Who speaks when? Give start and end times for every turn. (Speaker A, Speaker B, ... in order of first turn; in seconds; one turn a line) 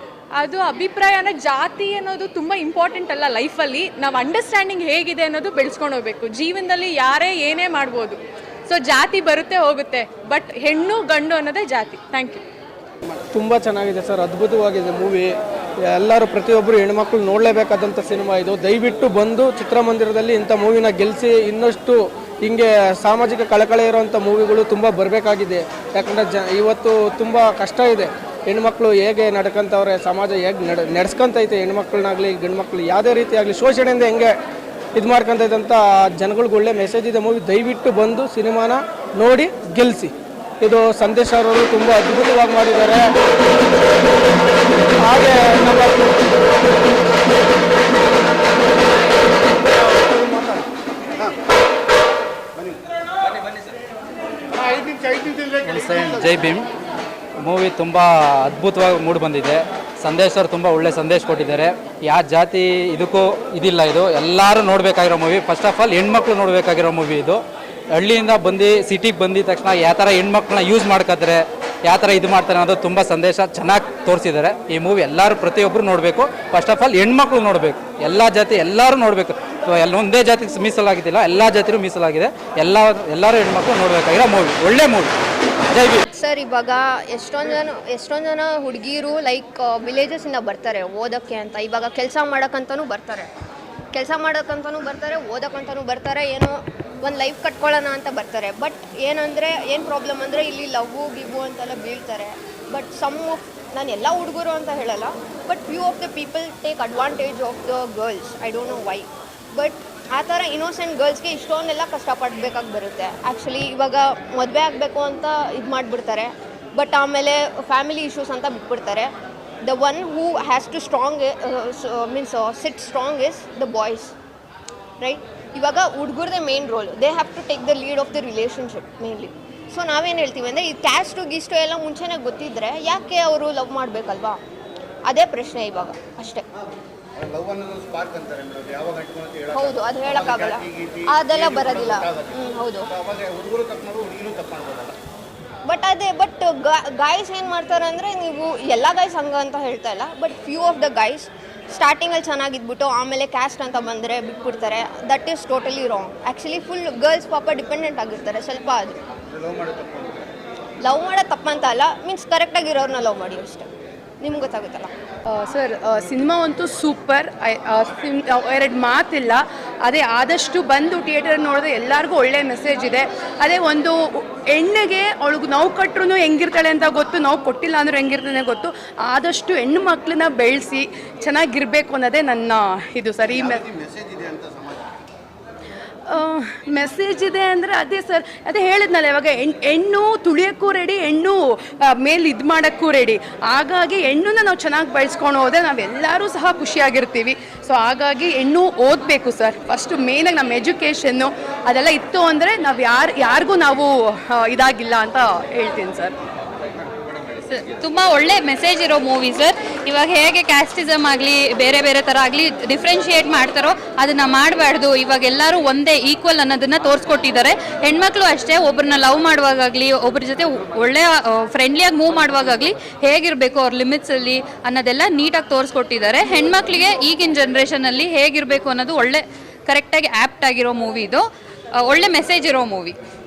Speaker A: 0.4-12.4
Speaker B: 13.4-15.2
Speaker B: 15.9-21.9
Speaker B: 22.4-34.3
Speaker B: 35.0-40.1
Speaker B: 40.7-43.0
Speaker B: 45.0-45.9
Speaker C: 49.7-51.4
Speaker C: 54.6-56.2
Speaker D: 55.6-56.7
Speaker D: 57.4-85.1
Speaker D: 85.7-86.0
Speaker E: 86.1-93.3
Speaker E: 93.9-119.1
Speaker E: 119.6-124.1
Speaker E: 125.0-134.4
Speaker E: 135.1-136.4
Speaker C: 136.6-145.0
Speaker E: 139.5-142.9
Speaker E: 145.7-159.0
Speaker C: 159.3-160.3
Speaker E: 160.8-163.7
Speaker E: 164.2-164.9
Speaker F: 165.3-183.7
Speaker C: 183.2-184.9
Speaker F: 186.1-206.1
Speaker G: 207.5-231.3
Speaker G: 231.8-233.0